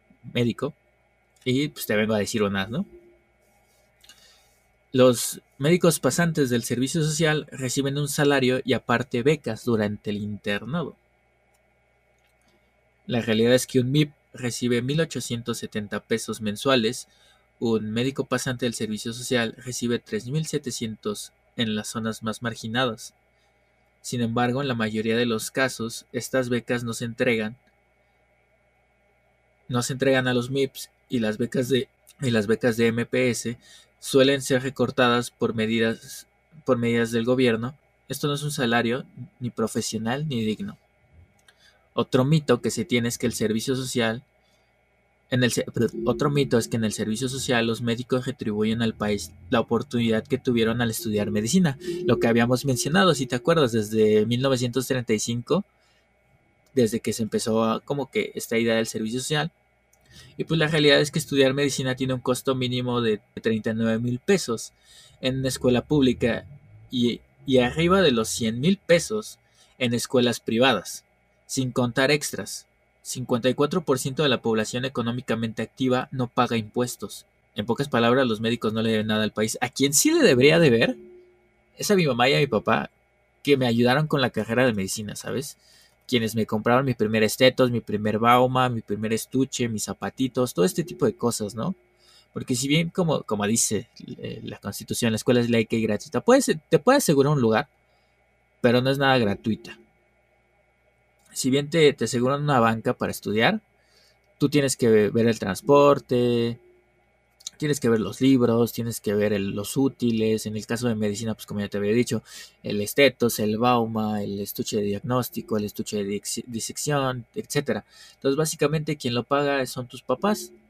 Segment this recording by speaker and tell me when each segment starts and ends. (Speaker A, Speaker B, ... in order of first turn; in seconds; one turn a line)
Speaker A: 0.3-0.8
Speaker A: 1.4-2.9
Speaker A: 4.9-11.0
Speaker A: 13.1-17.1
Speaker A: 17.6-23.1
Speaker A: 24.0-27.6
Speaker A: 29.7-40.8
Speaker A: 41.9-44.2
Speaker A: 45.3-55.6
Speaker A: 56.7-59.5
Speaker A: 60.4-81.0
Speaker A: 81.8-82.9
Speaker A: 83.4-91.8
Speaker A: 92.3-97.7
Speaker A: 98.6-99.8
Speaker A: 101.3-103.6
Speaker A: 104.4-106.6
Speaker A: 107.6-120.5